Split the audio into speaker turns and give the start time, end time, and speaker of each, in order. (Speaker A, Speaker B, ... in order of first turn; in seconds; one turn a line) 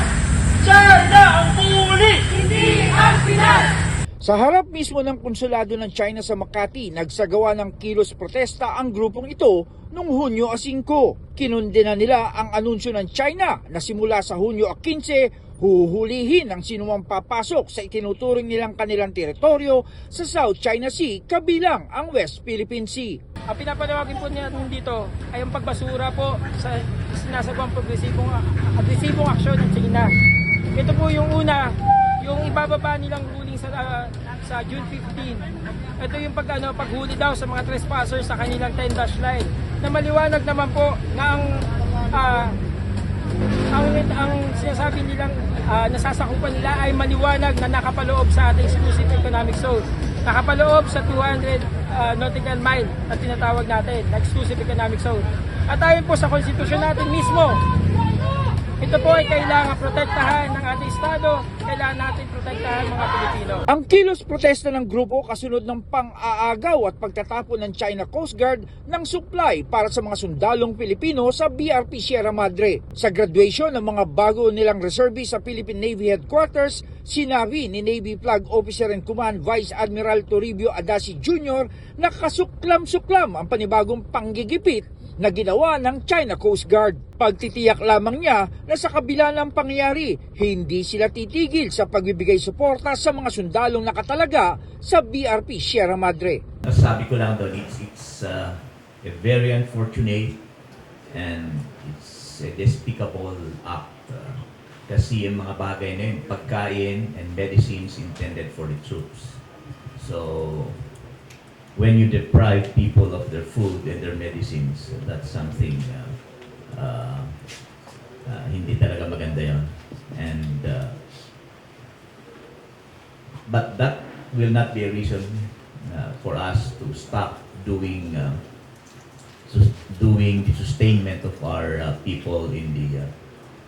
Speaker A: 0.6-1.6
Speaker B: 1.6-2.5
Speaker A: 2.5-3.5
Speaker B: 4.2-23.1
Speaker A: 23.5-30.1
Speaker A: 30.7-35.5
Speaker A: 36.0-41.5
Speaker A: 42.1-42.5
Speaker A: 43.7-57.6
Speaker A: 58.8-63.6
Speaker B: 63.7-96.4
Speaker C: 96.6-100.4
Speaker C: 101.1-110.9
Speaker C: 111.7-117.5
Speaker C: 118.2-121.0
Speaker C: 123.5-128.4
Speaker C: 129.4-133.1